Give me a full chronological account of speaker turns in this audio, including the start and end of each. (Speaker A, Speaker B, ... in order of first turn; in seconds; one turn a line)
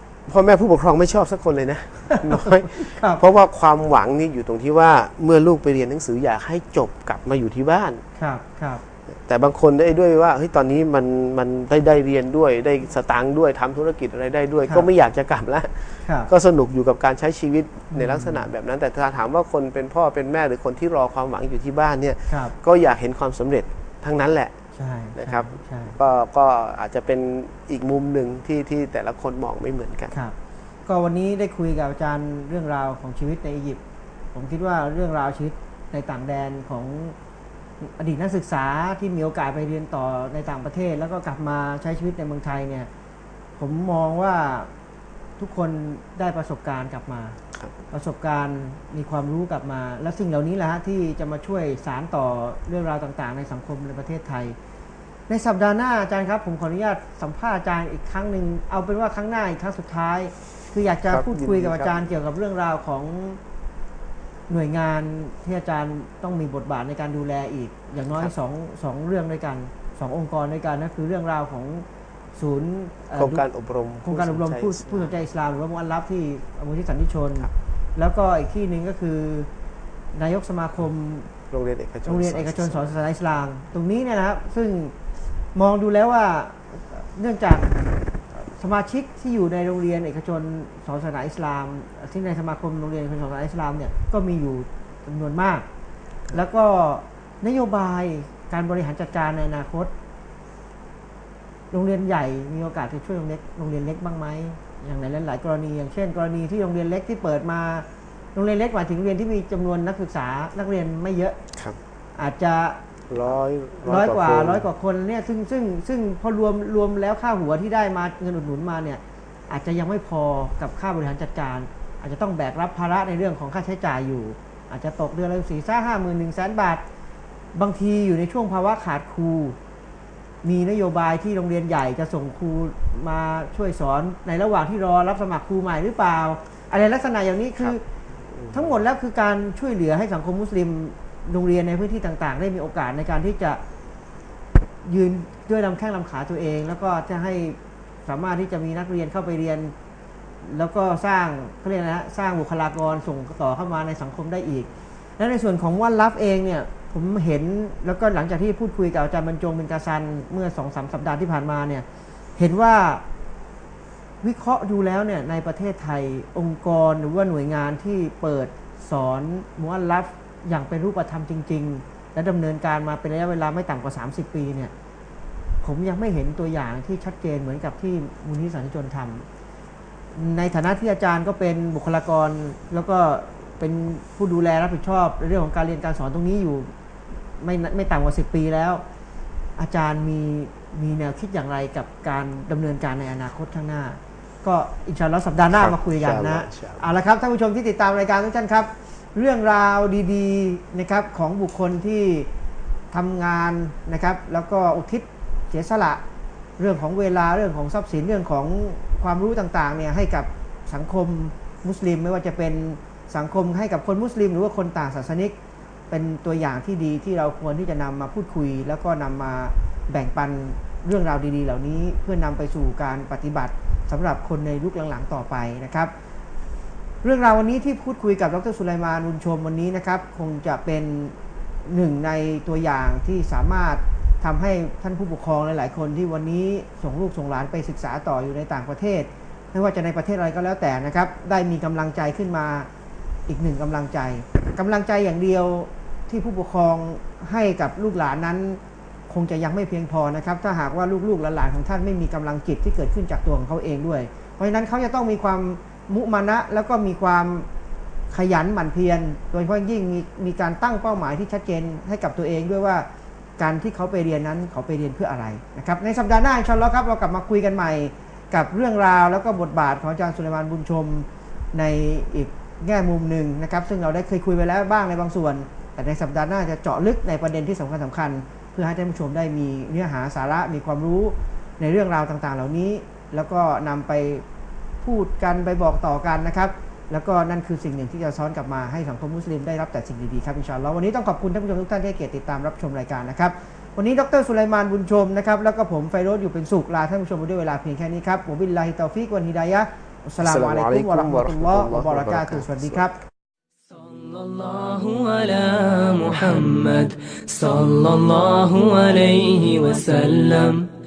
Speaker A: 0.3-8.0
Speaker B: 2.1-3.2
Speaker B: 8.2-8.8
Speaker A: 9.1-24.6
Speaker B: 16.1-16.3
Speaker B: 17.9-18.5
Speaker B: 22.3-22.6
Speaker B: 24.8-25.9
Speaker A: 25.2-30.1
Speaker B: 30.9-33.8
Speaker B: 34.3-37.2
Speaker B: 37.8-42.9
Speaker B: 43.6-44.7
Speaker B: 45.4-47.4
Speaker B: 47.9-54.6
Speaker B: 55.3-63.4
Speaker A: 61.1-62.1
Speaker B: 64.5-73.4
Speaker A: 73.2-75.1
Speaker B: 74.0-79.5
Speaker B: 80.1-81.3
Speaker A: 81.5-82.9
Speaker B: 82.0-85.0
Speaker B: 85.5-87.8
Speaker B: 88.3-95.7
Speaker B: 96.3-99.9
Speaker B: 101.7-111.4
Speaker B: 112.2-112.8
Speaker A: 113.1-114.7
Speaker B: 113.9-126.8
Speaker B: 127.5-129.6
Speaker B: 130.4-137.8
Speaker A: 138.3-138.8
Speaker B: 138.5-143.6
Speaker B: 144.8-149.7
Speaker B: 150.4-154.7
Speaker B: 155.2-161.8
Speaker B: 162.4-163.0
Speaker B: 164.2-174.7
Speaker B: 175.6-179.3
Speaker B: 180.2-188.8
Speaker B: 189.6-202.3
Speaker A: 195.5-196.8
Speaker B: 202.9-206.0
Speaker B: 206.6-215.3
Speaker B: 215.9-225.9
Speaker B: 227.0-242.7
Speaker B: 243.3-257.5
Speaker B: 258.1-262.9
Speaker B: 263.4-284.2
Speaker B: 284.8-303.0
Speaker A: 300.2-302.9
Speaker C: 303.7-310.6